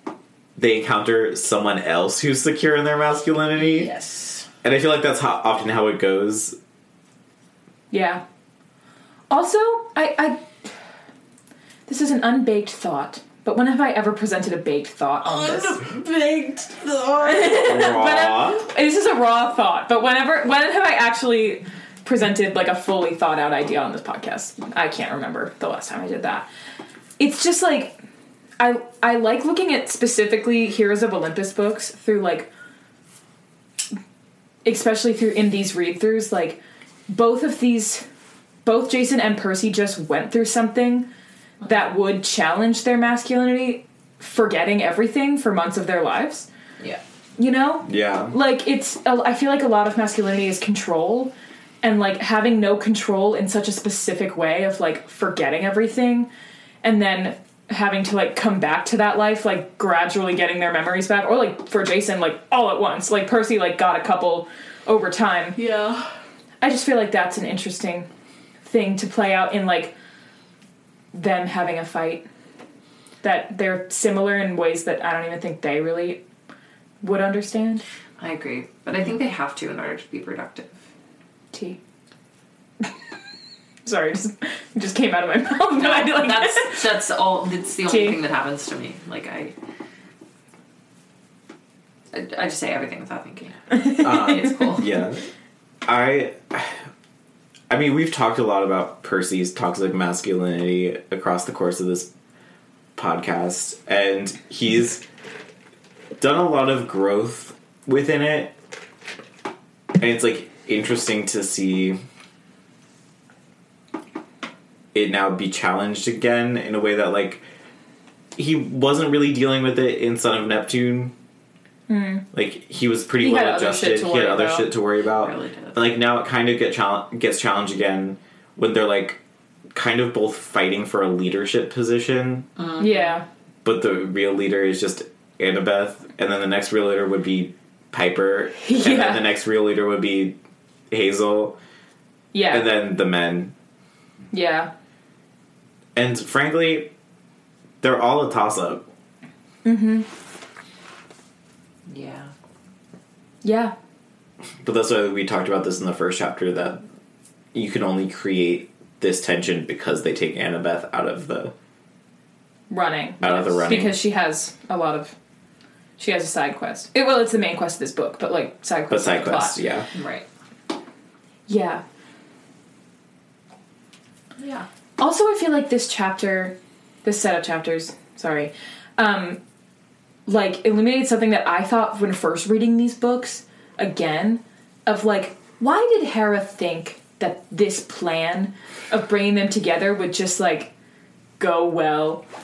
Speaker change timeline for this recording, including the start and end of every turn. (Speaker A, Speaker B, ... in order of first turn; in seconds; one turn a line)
Speaker A: 0.6-3.9
Speaker B: 3.5-4.5
Speaker A: 4.6-6.6
Speaker C: 7.9-8.2
Speaker C: 9.3-10.5
Speaker C: 11.9-15.8
Speaker B: 15.2-17.8
Speaker C: 17.2-26.5
Speaker A: 17.6-18.6
Speaker C: 27.2-28.0
Speaker C: 28.6-32.5
Speaker C: 34.6-38.1
Speaker C: 38.6-41.1
Speaker C: 41.6-46.5
Speaker C: 47.4-56.3
Speaker A: 47.9-48.4
Speaker C: 56.8-65.6
Speaker B: 65.6-66.1
Speaker C: 66.6-68.1
Speaker C: 68.6-69.9
Speaker C: 71.1-72.2
Speaker C: 73.2-76.2
Speaker C: 77.0-77.8
Speaker B: 78.2-80.7
Speaker C: 81.5-81.8
Speaker C: 83.8-86.8
Speaker B: 85.8-89.5
Speaker C: 87.9-88.2
Speaker B: 92.1-94.9
Speaker C: 93.7-94.0
Speaker A: 94.0-95.2
Speaker A: 95.9-96.8
Speaker A: 97.7-102.1
Speaker A: 103.0-105.0
Speaker A: 106.2-108.5
Speaker A: 110.0-112.0
Speaker A: 114.9-117.4
Speaker A: 118.4-121.1
Speaker C: 121.9-122.3
Speaker A: 122.3-129.2
Speaker C: 123.2-124.7
Speaker B: 125.1-125.9
Speaker A: 129.7-132.5
Speaker B: 132.6-133.2
Speaker C: 132.8-133.2
Speaker A: 133.6-140.4
Speaker C: 138.6-139.3
Speaker A: 140.9-141.6
Speaker C: 142.3-142.7
Speaker A: 142.5-143.5
Speaker C: 144.3-144.7
Speaker A: 145.9-146.9
Speaker A: 147.8-148.8
Speaker C: 149.7-150.1
Speaker B: 151.9-152.3
Speaker C: 153.4-153.7
Speaker A: 154.6-156.8
Speaker A: 157.5-161.5
Speaker C: 162.7-165.1
Speaker A: 163.2-164.0
Speaker C: 166.0-169.6
Speaker A: 168.9-169.9
Speaker B: 169.9-170.2
Speaker C: 171.5-171.8
Speaker B: 174.4-174.7
Speaker C: 175.0-179.4
Speaker C: 180.3-190.7
Speaker C: 191.4-192.2